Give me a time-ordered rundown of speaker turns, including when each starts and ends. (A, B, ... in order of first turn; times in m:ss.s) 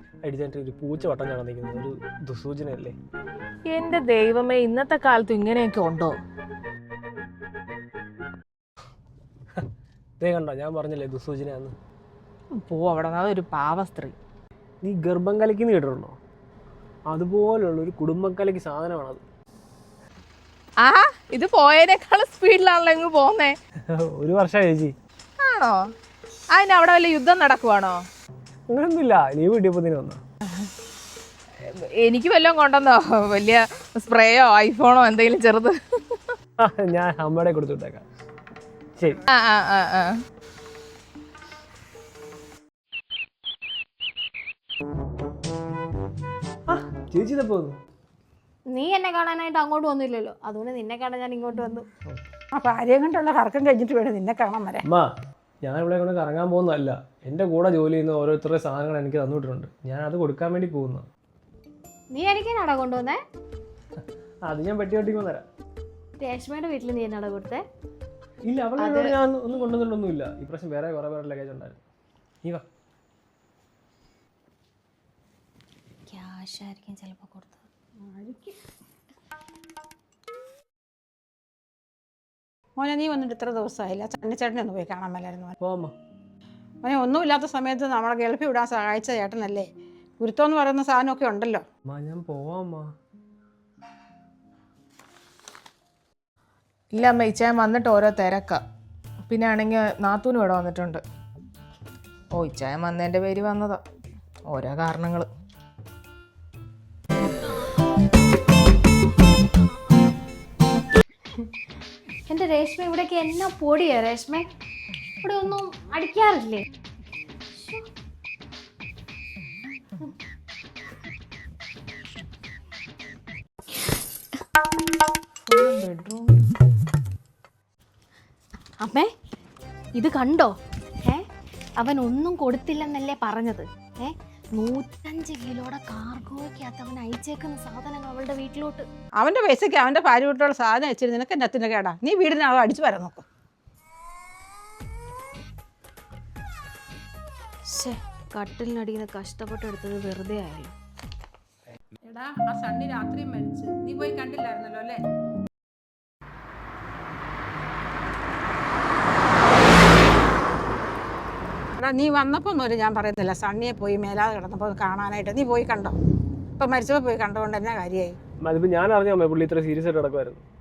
0:00.2-0:03.0 A
0:03.7-0:06.1 B
0:10.2-0:11.8 A
0:12.5-0:14.1 B
0:14.8-0:16.2 A
0:17.1-0:19.2 A
0:20.8-0:23.6 B
0:23.9-0:24.9 A
0:25.4-0:25.9 B
0:26.5-0:28.0 B
0:28.7-0:30.2 A
0:31.6-0:36.3 B
0:36.6-0:38.0 A
0:39.3-0:40.2 B
0:46.7-0:47.8 A
0:48.7-0:51.8 C
0:52.5-0:54.8 D
0:55.6-1:01.1 A
1:02.1-1:03.2 C
1:04.4-1:05.4 A
1:06.2-1:07.6 C
1:08.5-1:11.8 A
1:08.8-1:09.1 C
1:16.1-1:17.6 C
1:18.0-1:18.6 D
1:22.8-1:25.6 D
1:25.6-1:25.9 A
1:26.8-1:31.6 D
1:31.9-1:32.9 A
1:36.9-1:38.6 B
1:39.3-1:41.0 B
1:42.3-1:43.8 B
1:44.5-1:45.3 B
1:52.3-1:54.5 C
1:55.2-1:56.6 C
1:57.5-1:57.9 C
2:05.5-2:06.5 B
2:08.8-2:09.1 C
2:09.9-2:11.2 C
2:11.8-2:18.8 C
2:19.2-2:23.2 D
2:27.7-2:30.7 C
2:32.0-2:35.0 D
2:41.8-2:46.0 D
2:46.6-2:48.2 D
2:48.4-2:50.4 A